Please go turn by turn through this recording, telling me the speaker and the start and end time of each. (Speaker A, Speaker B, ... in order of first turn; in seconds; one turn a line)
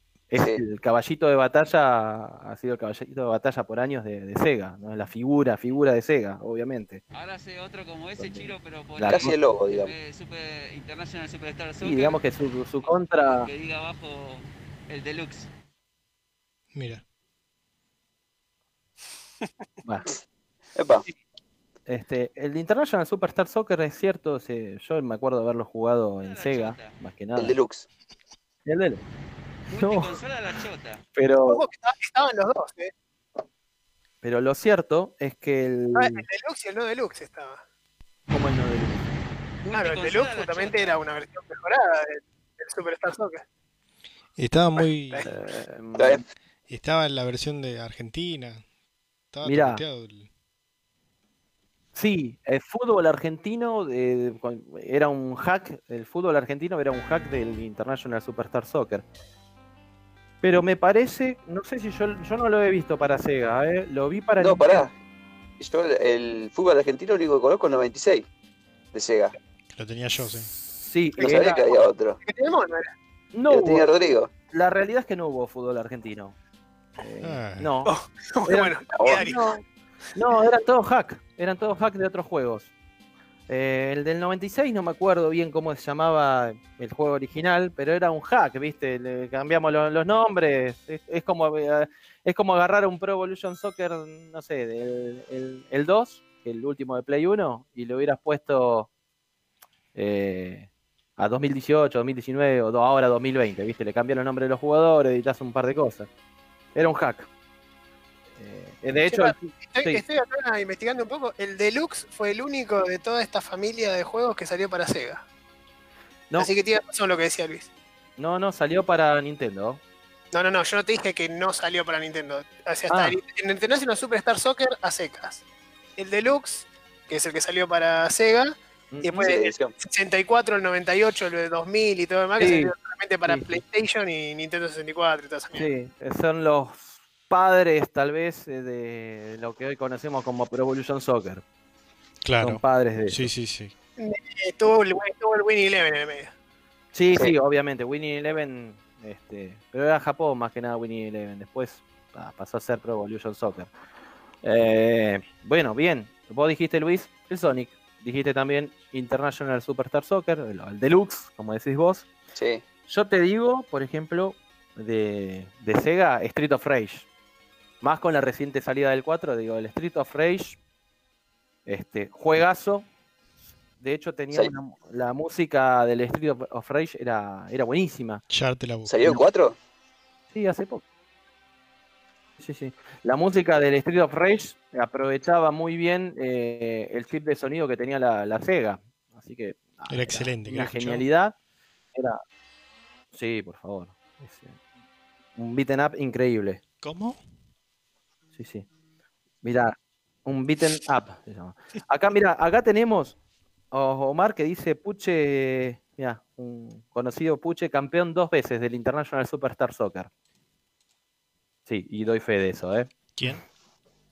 Speaker A: 0.3-7.0
Speaker B: 7.1-12.3
Speaker A: 8.2-9.3
Speaker C: 9.1-9.9
Speaker A: 11.8-13.5
Speaker B: 12.8-15.5
Speaker D: 16.7-17.0
Speaker A: 19.8-20.1
Speaker C: 20.8-21.0
Speaker A: 21.9-27.5
Speaker B: 26.2-26.9
Speaker C: 27.4-27.9
Speaker A: 28.6-29.0
Speaker B: 29.7-31.0
Speaker A: 29.7-30.2
Speaker A: 31.1-31.6
Speaker E: 31.5-32.9
Speaker A: 34.2-36.2
Speaker E: 35.9-37.6
Speaker A: 38.3-39.0
Speaker B: 39.6-41.0
Speaker E: 39.7-43.4
Speaker D: 44.4-45.3
Speaker E: 44.8-45.3
Speaker A: 45.2-46.2
Speaker C: 45.9-46.2
Speaker D: 46.7-48.6
Speaker D: 49.3-50.3
Speaker A: 49.4-49.8
Speaker A: 51.9-59.0
Speaker A: 60.4-64.9
Speaker C: 64.4-64.9
Speaker C: 65.6-68.3
Speaker C: 68.9-69.3
Speaker D: 69.7-70.5
Speaker A: 70.5-71.7
Speaker C: 71.2-72.2
Speaker E: 71.2-71.6
Speaker E: 72.2-72.9
Speaker A: 73.3-73.9
Speaker C: 73.5-74.3
Speaker A: 74.5-76.3
Speaker A: 77.0-77.9
Speaker D: 77.2-77.7
Speaker E: 77.8-79.5
Speaker A: 78.5-79.6
Speaker C: 78.9-79.3
Speaker A: 80.1-82.7
Speaker A: 83.5-98.9
Speaker A: 99.9-106.1
Speaker A: 106.7-107.3
Speaker A: 108.4-110.0
Speaker E: 109.1-115.2
Speaker E: 116.4-117.7
Speaker A: 118.2-119.8
Speaker E: 120.3-125.4
Speaker A: 122.9-123.2
Speaker E: 126.0-135.7
Speaker A: 128.9-129.3
Speaker C: 129.2-129.7
Speaker A: 132.4-132.7
Speaker A: 133.3-133.6
Speaker A: 135.5-141.4
Speaker D: 142.2-143.7
Speaker A: 142.4-143.3
Speaker E: 144.0-146.3
Speaker A: 146.9-153.7
Speaker A: 154.4-162.1
Speaker C: 162.3-162.6
Speaker A: 162.9-167.1
Speaker A: 167.8-170.6
Speaker A: 171.7-172.9
Speaker A: 173.8-178.2
Speaker D: 178.3-179.1
Speaker C: 178.8-179.6
Speaker A: 180.3-180.8
Speaker A: 182.4-191.3
Speaker D: 189.9-191.1
Speaker A: 191.9-192.2
Speaker A: 193.1-194.6
Speaker A: 195.4-196.6
Speaker D: 196.8-197.2
Speaker A: 198.3-198.7
Speaker A: 199.4-203.2
Speaker A: 203.7-210.1
Speaker A: 211.7-213.3
Speaker D: 213.2-213.4